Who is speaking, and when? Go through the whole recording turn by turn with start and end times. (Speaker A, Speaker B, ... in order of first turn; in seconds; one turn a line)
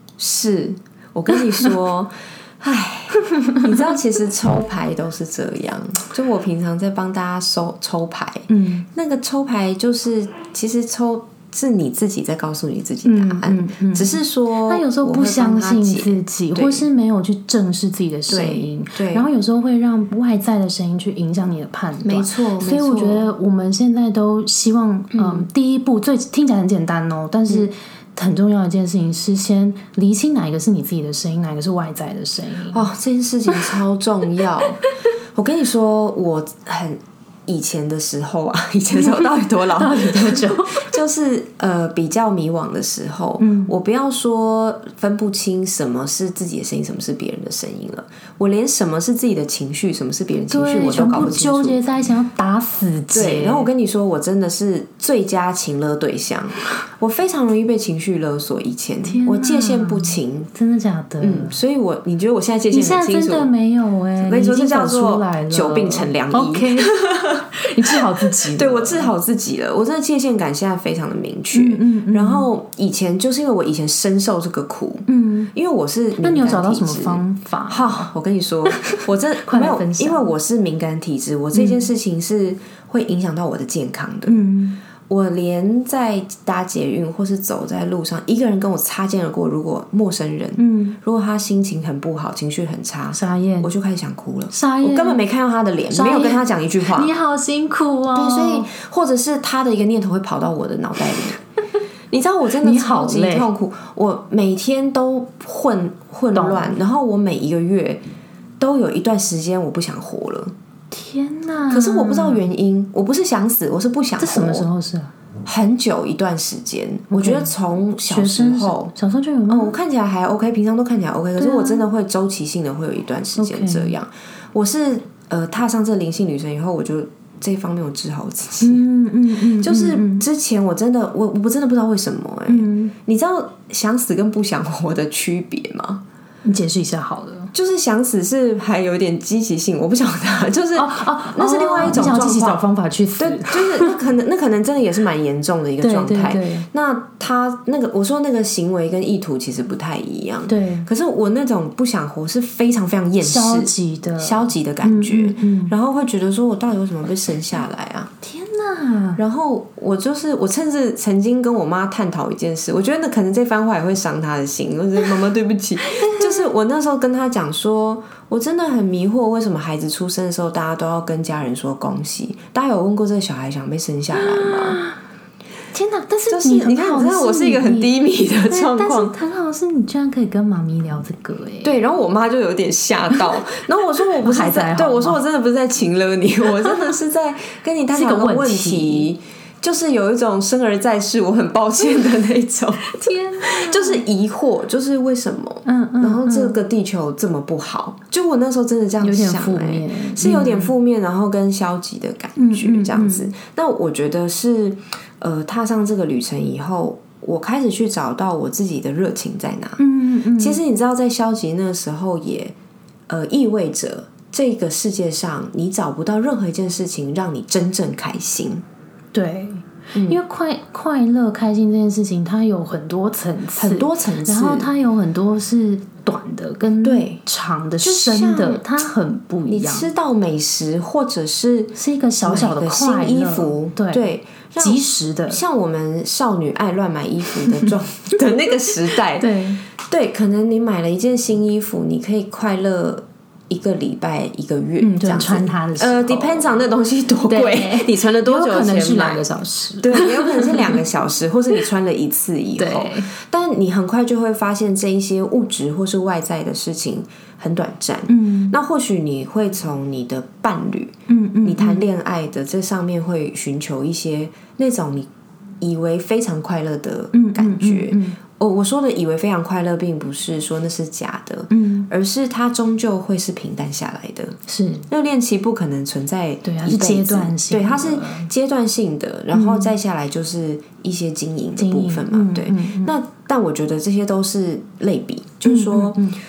Speaker A: 0.2-16.9
Speaker B: 3.3-3.6
Speaker B: 8.5-8.8
Speaker B: 13.0-32.9
Speaker A: 18.3-19.3
Speaker A: 22.0-23.3
Speaker A: 25.1-25.4
Speaker A: 32.7-34.8
Speaker A: 35.3-51.8
Speaker B: 39.0-40.9
Speaker B: 43.4-43.7
Speaker B: 50.5-53.7
Speaker A: 53.1-60.5
Speaker B: 59.0-61.5
Speaker A: 61.2-63.5
Speaker B: 62.7-69.1
Speaker A: 64.2-84.4
Speaker B: 71.5-72.5
Speaker B: 75.1-75.5
Speaker B: 76.2-78.1
Speaker B: 78.7-80.2
Speaker B: 81.5-81.8
Speaker B: 84.3-84.8
Speaker A: 85.1-97.1
Speaker B: 90.6-91.0
Speaker B: 93.1-93.7
Speaker B: 94.5-95.2
Speaker B: 95.9-98.7
Speaker A: 98.1-101.4
Speaker A: 102.1-108.0
Speaker B: 102.6-103.5
Speaker B: 106.3-106.7
Speaker A: 108.6-110.5
Speaker B: 110.9-112.4
Speaker A: 111.7-114.7
Speaker B: 114.2-115.1
Speaker A: 115.5-118.9
Speaker B: 117.1-117.5
Speaker B: 118.0-119.7
Speaker A: 119.5-128.8
Speaker B: 121.4-121.9
Speaker B: 123.4-124.0
Speaker B: 128.6-130.2
Speaker A: 129.5-136.0
Speaker B: 132.5-132.9
Speaker B: 136.4-137.5
Speaker A: 137.5-142.6
Speaker B: 140.8-144.0
Speaker A: 143.2-158.1
Speaker B: 145.8-146.7
Speaker B: 150.5-150.9
Speaker B: 153.2-155.7
Speaker B: 158.2-159.2
Speaker A: 159.2-174.8
Speaker B: 165.8-166.5
Speaker B: 174.1-175.0
Speaker B: 175.7-177.9
Speaker A: 176.3-179.1
Speaker B: 178.5-181.8
Speaker A: 181.6-209.8
Speaker B: 184.2-185.2
Speaker B: 187.9-189.1
Speaker B: 192.9-194.0
Speaker B: 195.6-196.6
Speaker B: 199.0-200.7
Speaker B: 202.4-203.3
Speaker B: 209.8-210.6
Speaker A: 210.4-212.5
Speaker A: 213.1-218.6
Speaker B: 219.1-229.9
Speaker A: 219.9-220.2
Speaker A: 223.6-224.7
Speaker A: 226.8-227.2
Speaker A: 227.8-228.7
Speaker A: 229.5-239.3
Speaker B: 231.8-234.0
Speaker B: 234.6-235.4
Speaker B: 237.4-237.7
Speaker B: 238.9-239.6
Speaker A: 239.8-249.2
Speaker B: 244.8-246.6
Speaker B: 247.2-250.8
Speaker A: 249.8-265.1
Speaker B: 252.6-253.1
Speaker B: 258.1-258.5
Speaker B: 261.1-261.8
Speaker A: 265.6-274.4
Speaker B: 267.1-268.2
Speaker B: 271.5-271.9
Speaker B: 274.5-274.9
Speaker A: 274.9-286.0
Speaker B: 276.4-278.3
Speaker B: 279.3-279.7
Speaker B: 281.6-282.9
Speaker B: 285.4-286.2